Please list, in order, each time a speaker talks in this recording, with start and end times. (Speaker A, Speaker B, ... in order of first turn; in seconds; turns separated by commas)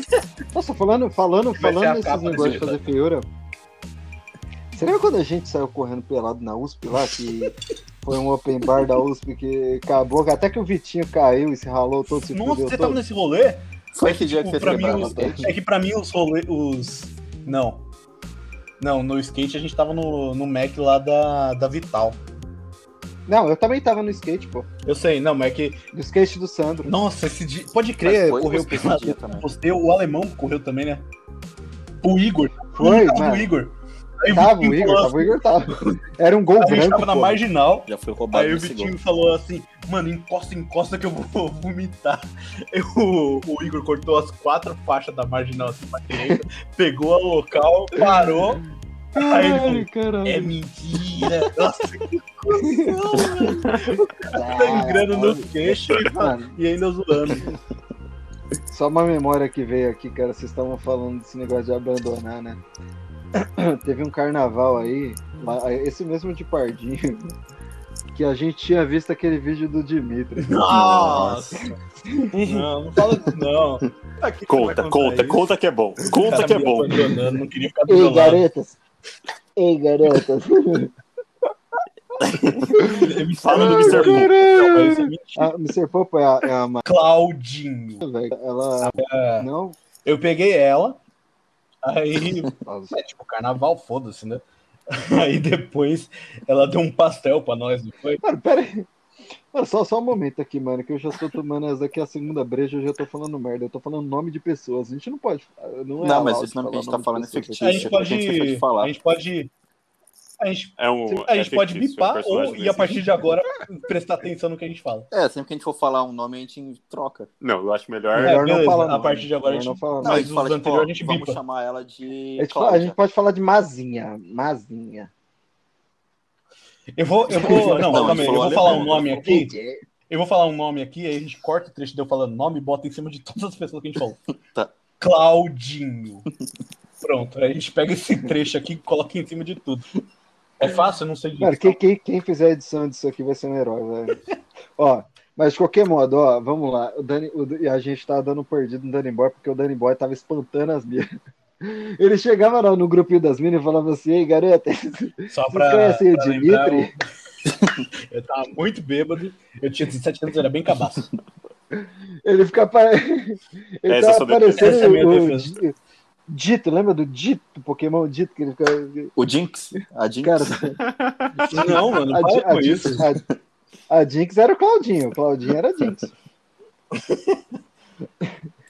Speaker A: 0.5-3.2, Speaker B: 1.6-2.9, Speaker A: 4.7-13.0, Speaker B: 12.2-17.8, Speaker C: 13.9-15.5, Speaker A: 14.6-15.5, Speaker B: 18.8-22.2, Speaker A: 23.2-24.7, Speaker B: 24.9-25.8, Speaker A: 25.9-26.9, Speaker B: 26.8-31.1, Speaker C: 28.0-29.5, Speaker B: 32.0-35.9, Speaker A: 32.8-33.5, Speaker A: 34.3-37.4, Speaker B: 36.6-48.6, Speaker C: 37.9-38.9, Speaker A: 48.0-48.4, Speaker A: 49.1-50.5, Speaker B: 49.1-57.5, Speaker A: 52.6-56.5, Speaker A: 58.7-62.6, Speaker A: 63.4-67.3, Speaker A: 68.1-72.3, Speaker B: 70.4-71.6, Speaker C: 70.8-71.4, Speaker B: 72.3-75.4, Speaker D: 74.5-77.1, Speaker B: 76.1-78.4, Speaker A: 77.9-78.8, Speaker A: 79.5-80.9, Speaker C: 82.2-82.8, Speaker A: 82.7-86.8, Speaker B: 82.8-85.5, Speaker D: 83.4-84.2, Speaker B: 86.8-88.0, Speaker A: 88.0-89.8, Speaker B: 88.8-89.5, Speaker B: 90.0-91.0, Speaker B: 91.8-98.2, Speaker A: 92.7-92.9, Speaker A: 98.2-98.9, Speaker A: 99.5-107.9, Speaker C: 106.0-108.9, Speaker B: 107.6-109.5, Speaker B: 110.4-115.1, Speaker D: 110.8-113.2, Speaker C: 115.1-117.3, Speaker D: 117.4-118.4, Speaker A: 118.1-120.2, Speaker B: 118.1-121.4, Speaker C: 120.0-123.0, Speaker A: 122.4-125.1, Speaker B: 127.0-129.6, Speaker C: 127.3-129.6, Speaker A: 127.4-129.7, Speaker B: 130.1-134.2, Speaker B: 135.0-136.2, Speaker B: 137.0-139.8, Speaker B: 140.6-141.8, Speaker A: 141.4-144.2, Speaker A: 144.8-156.9, Speaker B: 155.3-156.9, Speaker C: 157.4-157.8, Speaker B: 158.1-161.1, Speaker A: 161.7-165.7, Speaker D: 163.8-165.0, Speaker B: 164.6-165.6, Speaker A: 166.3-169.1, Speaker C: 169.2-170.7, Speaker A: 170.2-170.8, Speaker D: 170.8-171.6, Speaker A: 171.5-173.2, Speaker B: 171.5-173.1, Speaker A: 173.9-176.1, Speaker B: 177.1-177.3